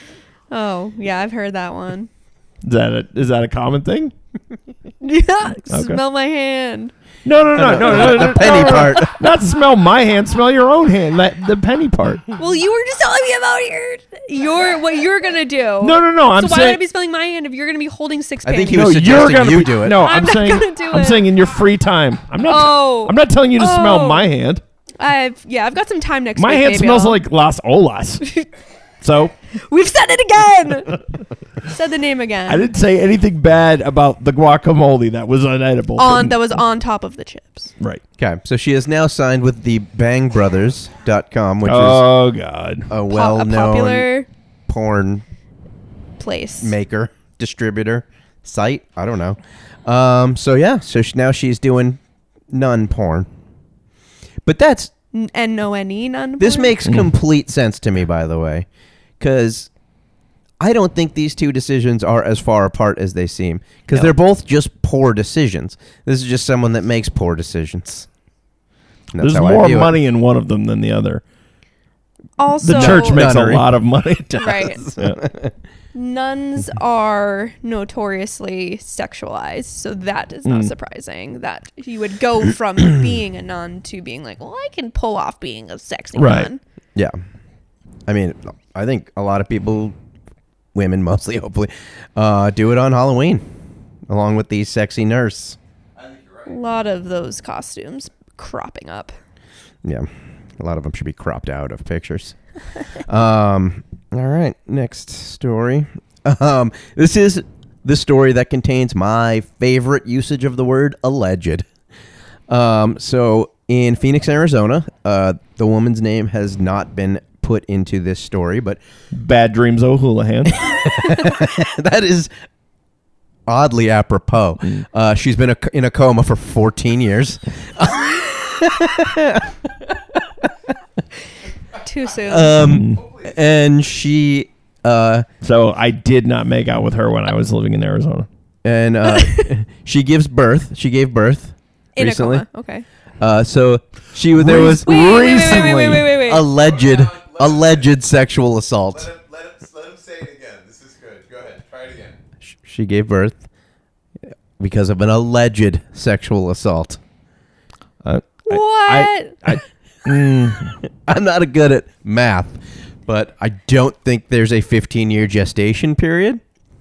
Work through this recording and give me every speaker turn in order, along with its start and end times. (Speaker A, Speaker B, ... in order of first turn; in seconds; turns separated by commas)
Speaker A: 0.5-2.1, Speaker B: 2.6-4.1, Speaker A: 5.0-6.9, Speaker B: 5.7-6.0, Speaker B: 7.2-12.2, Speaker C: 7.5-9.2, Speaker A: 7.8-9.2, Speaker A: 12.3-18.9, Speaker B: 15.8-16.8, Speaker C: 18.4-20.0, Speaker B: 18.7-24.6, Speaker A: 19.9-21.3, Speaker A: 22.4-24.3, Speaker A: 25.0-27.2, Speaker B: 26.4-28.2, Speaker B: 29.0-29.3, Speaker A: 29.6-31.0, Speaker A: 31.6-32.7, Speaker B: 32.5-36.4, Speaker A: 36.0-37.7, Speaker C: 38.2-42.0, Speaker B: 41.6-42.9, Speaker C: 42.9-44.1, Speaker A: 43.1-44.3, Speaker C: 44.7-45.2, Speaker A: 46.2-46.7, Speaker C: 46.6-53.3, Speaker C: 54.4-54.9, Speaker A: 55.1-56.8, Speaker C: 56.4-58.7, Speaker B: 56.9-57.1, Speaker C: 59.2-59.7, Speaker C: 60.6-68.1, Speaker C: 69.1-69.9, Speaker B: 69.2-71.2, Speaker A: 72.4-73.3, Speaker B: 72.6-75.2, Speaker C: 72.7-75.5, Speaker A: 74.3-74.8, Speaker A: 75.9-86.6, Speaker B: 80.5-80.7, Speaker B: 86.2-86.5, Speaker C: 88.1-90.0, Speaker C: 90.7-93.4, Speaker C: 94.1-95.6, Speaker D: 96.0-96.6, Speaker A: 96.5-99.2, Speaker C: 99.8-102.3, Speaker C: 103.0-111.7, Speaker C: 112.5-118.8, Speaker B: 119.1-120.7, Speaker C: 120.5-122.3, Speaker C: 123.5-129.6, Speaker A: 131.8-132.7, Speaker C: 132.2-135.3, Speaker B: 132.6-133.0, Speaker D: 132.8-133.3, Speaker B: 135.4-138.3, Speaker C: 138.6-142.4, Speaker A: 139.1-139.5, Speaker A: 141.9-142.8, Speaker C: 143.2-149.1, Speaker B: 144.3-146.2, Speaker A: 144.6-146.4, Speaker D: 146.4-147.9, Speaker D: 148.9-152.2, Speaker C: 152.4-153.4, Speaker C: 154.6-157.0, Speaker B: 158.0-160.8, Speaker A: 158.5-159.6, Speaker C: 161.1-166.4